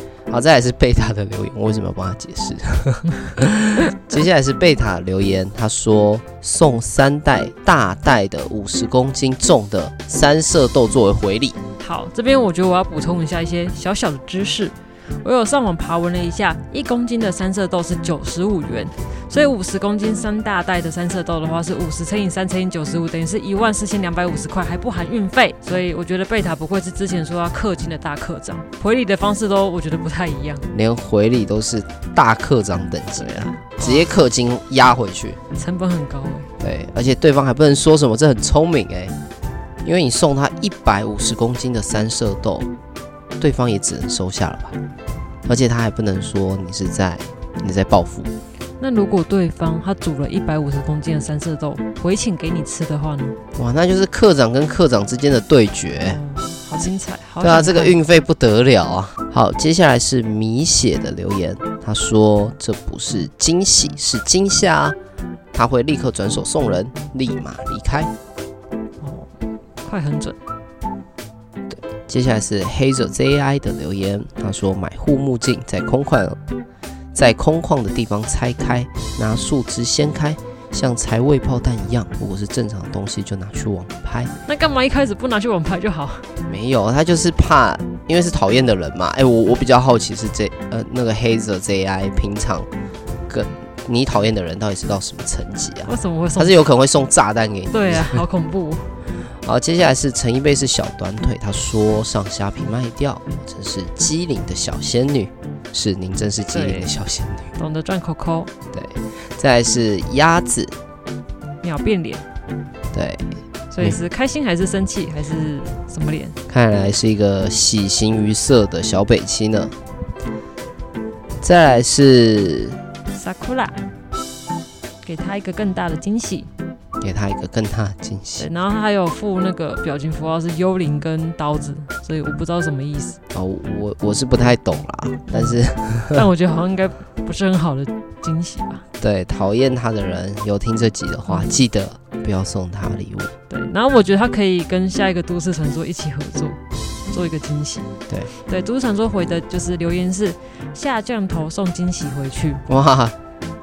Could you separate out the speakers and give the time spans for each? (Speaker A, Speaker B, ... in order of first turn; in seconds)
Speaker A: 0.3-11.6, 30.7-35.4, 36.6-39.2, 39.8-42.7, 43.4-44.8, 45.4-48.3, 53.5-56.2, 57.4-65.0, 65.5-68.1, 71.7-76.4, 77.1-84.3, 86.5-92.7, 93.3-98.2, 99.4-107.5, 108.7-110.7, 112.9-113.3, 116.5-119.7, 121.4-122.8, 127.0-128.5, 133.3-136.3, 139.0-143.3, 152.7-153.2
Speaker B: 11.8-30.7, 33.2-34.1, 35.5-36.5, 48.8-53.4, 56.0-58.0, 69.0-69.3, 69.8-70.4, 84.5-86.3, 95.8-96.6, 97.7-98.9, 106.5-106.9, 107.6-108.5, 111.6-112.2, 113.7-116.3, 123.1-123.8, 125.0-126.5, 128.4-133.2, 135.3-135.6, 136.1-138.8, 141.3-141.5, 143.5-152.6